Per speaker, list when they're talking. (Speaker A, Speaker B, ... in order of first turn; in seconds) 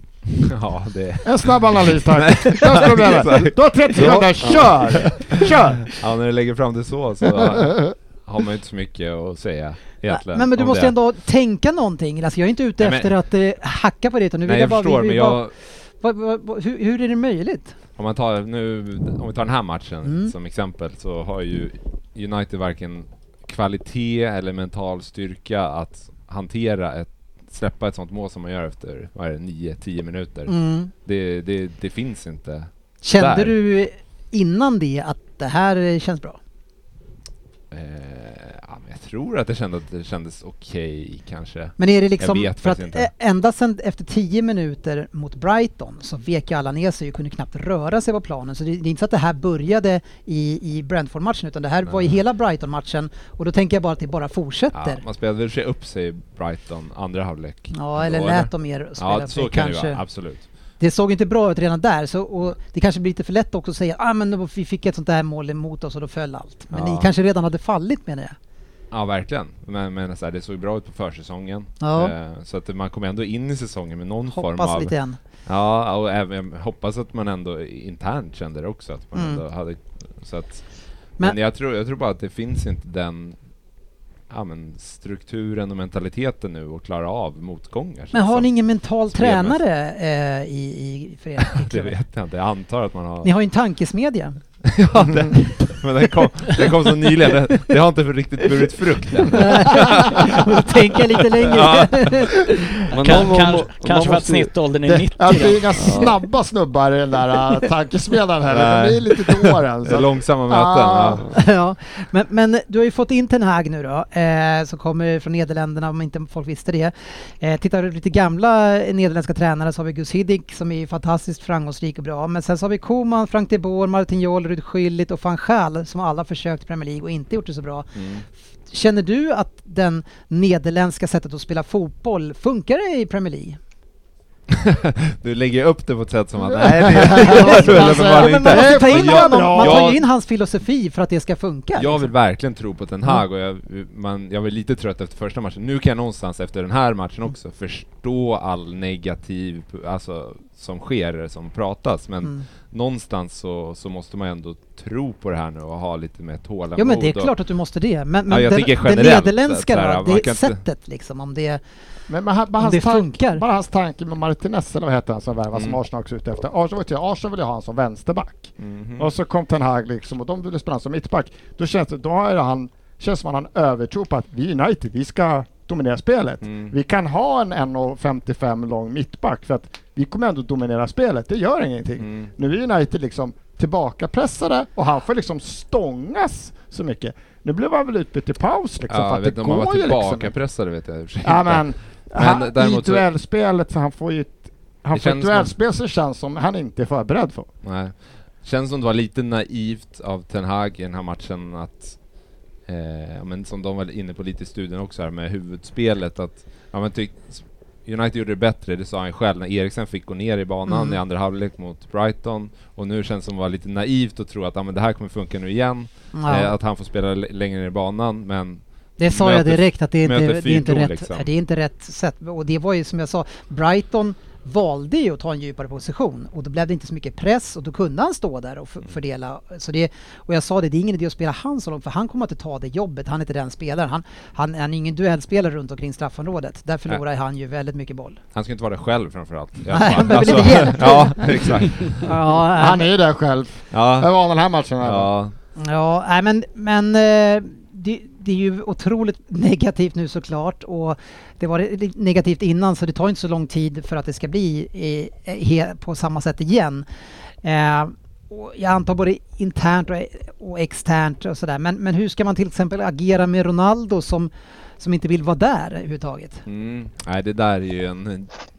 Speaker A: 0.4-10.9, 12.8-13.1, 14.4-15.5, 18.0-30.5, 31.1-33.5, 37.7-43.1, 51.9-52.2, 54.7-60.5, 66.7-67.1, 68.9-74.9, 75.5-80.7, 81.2-83.4, 84.3-88.5, 89.1-89.6, 91.4-93.3, 94.6-100.7, 101.4-102.2, 108.5-111.2, 128.0-128.2, 134.5-140.0, 141.8-157.3, 158.3-160.6, 165.5-165.8, 168.6-169.1, 176.4-176.7, 182.0-182.3, 188.9-193.1, 194.9-195.5, 197.6-202.0, 202.7-221.3, 238.3-242.1, 243.7-244.1, 244.8-245.3, 266.5-268.3
Speaker B: 1.2-6.0, 104.9-111.2, 136.4-139.9, 162.1-190.3, 191.2-197.5, 242.5-245.1
Speaker C: 4.0-5.4, 102.9-104.5, 105.8-106.1
Speaker D: 10.1-15.4, 16.0-17.8, 20.1-20.3, 30.5-30.9, 33.0-36.4, 41.8-55.0, 57.7-60.0, 60.8-68.4, 71.8-72.1, 74.3-75.2, 79.2-79.4, 88.1-92.0, 93.2-94.4, 96.5-97.3, 99.3-102.8, 111.3-127.9, 128.7-133.6, 137.4-142.1, 156.8-161.6, 162.6-163.4, 210.7-211.0, 216.1-216.5, 219.0-238.2, 239.7-242.9, 245.6-256.9, 257.4-266.4
Speaker E: 103.0-106.1